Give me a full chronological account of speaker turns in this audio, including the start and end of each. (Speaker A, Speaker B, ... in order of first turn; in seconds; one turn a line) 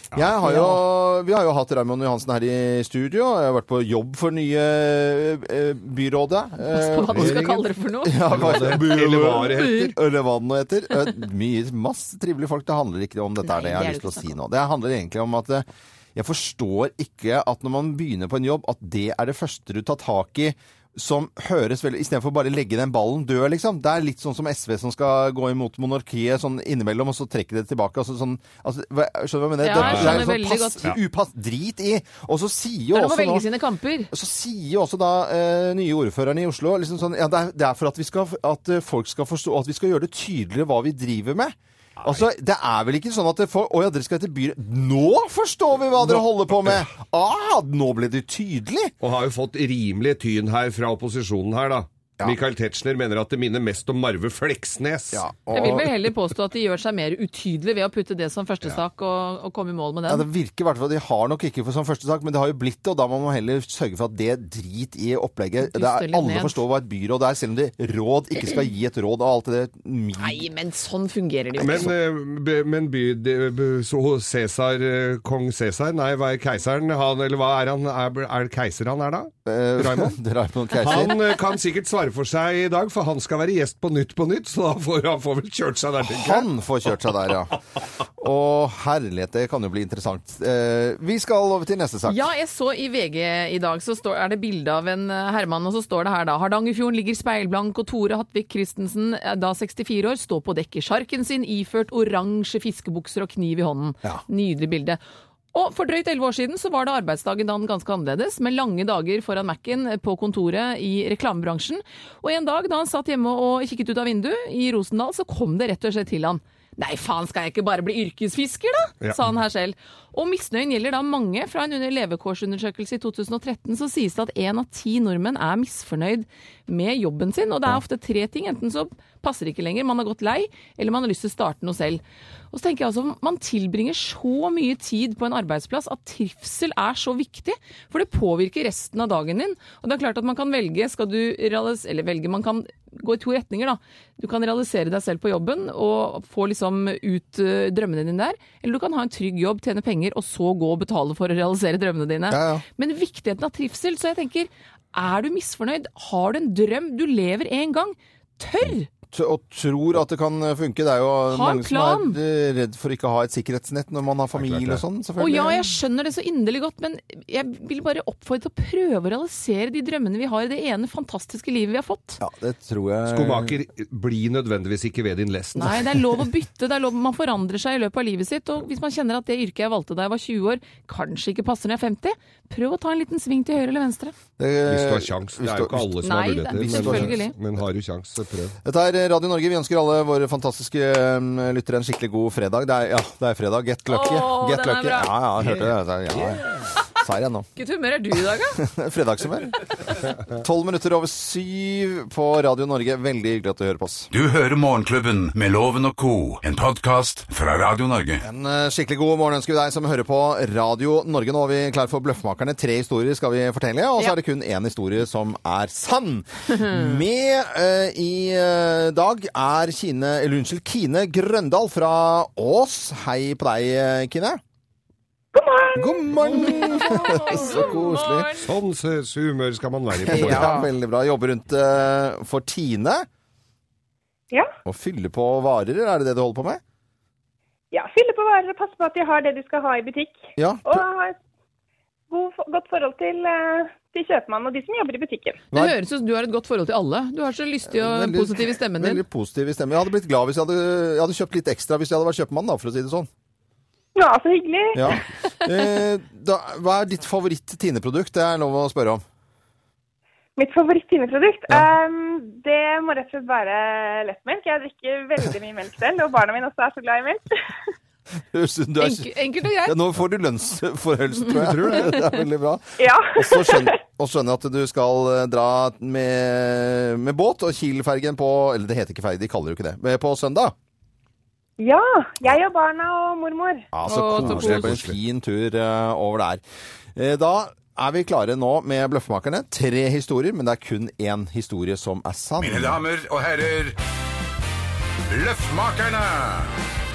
Speaker A: 0.1-33.5
Speaker B: 0.4-0.8
Speaker B: 6.7-9.9
Speaker C: 8.2-9.9
Speaker B: 13.4-14.4
Speaker B: 29.6-30.9
Speaker C: 29.8-30.2
Speaker B: 32.9-34.1
Speaker A: 34.1-49.0
Speaker C: 42.0-42.3
Speaker C: 46.0-46.9
Speaker C: 49.0-55.2
Speaker A: 55.1-56.0
Speaker B: 55.5-60.3
Speaker A: 60.1-70.4
Speaker B: 65.6-66.6
Speaker B: 70.2-71.9
Speaker C: 71.6-80.1
Speaker A: 79.5-81.2
Speaker C: 80.8-86.5
Speaker A: 86.1-87.6
Speaker A: 88.2-92.3
Speaker B: 92.1-105.0
Speaker B: 105.5-158.9
Speaker A: 152.3-152.6
Speaker A: 159.1-165.7
Speaker B: 161.3-162.2
Speaker C: 164.4-164.8
Speaker B: 165.2-172.2
Speaker A: 172.2-173.6
Speaker C: 173.1-175.9
Speaker B: 175.6-184.1
Speaker A: 184.4-185.9
Speaker C: 184.7-188.6
Speaker B: 186.0-187.3
Speaker A: 186.6-187.2
Speaker A: 188.7-197.5
Speaker B: 193.9-195.1
Speaker C: 195.4-196.4
Speaker B: 197.6-198.6
Speaker A: 198.6-199.6
Speaker A: 200.3-204.1
Speaker D: 204.1-208.2
Speaker A: 208.2-224.4
Speaker E: 225.3-227.7
Speaker A: 225.8-228.3
Speaker B: 226.3-228.4
Speaker C: 228.5-230.6
Speaker A: 230.1-233.1
Speaker B: 230.1-230.7
Speaker A: 234.7-236.6
Speaker E: 237.7-241.2
Speaker A: 240.4-240.8
Speaker E: 242.1-245.4
Speaker B: 245.5-249.0
Speaker A: 247.7-253.1
Speaker E: 254.0-255.0
Speaker A: 254.7-259.0
Speaker E: 260.4-267.2
Speaker A: 268.3-280.6
Speaker B: 268.8-269.8
Speaker C: 271.3-271.9
Speaker E: 272.8-273.8
Speaker E: 281.6-283.7
Speaker A: 283.7-286.4
Speaker B: 283.9-284.8
Speaker C: 284.2-284.9
Speaker A: 286.9-292.8
Speaker D: 292.4-293.8
Speaker D: 295.1-296.5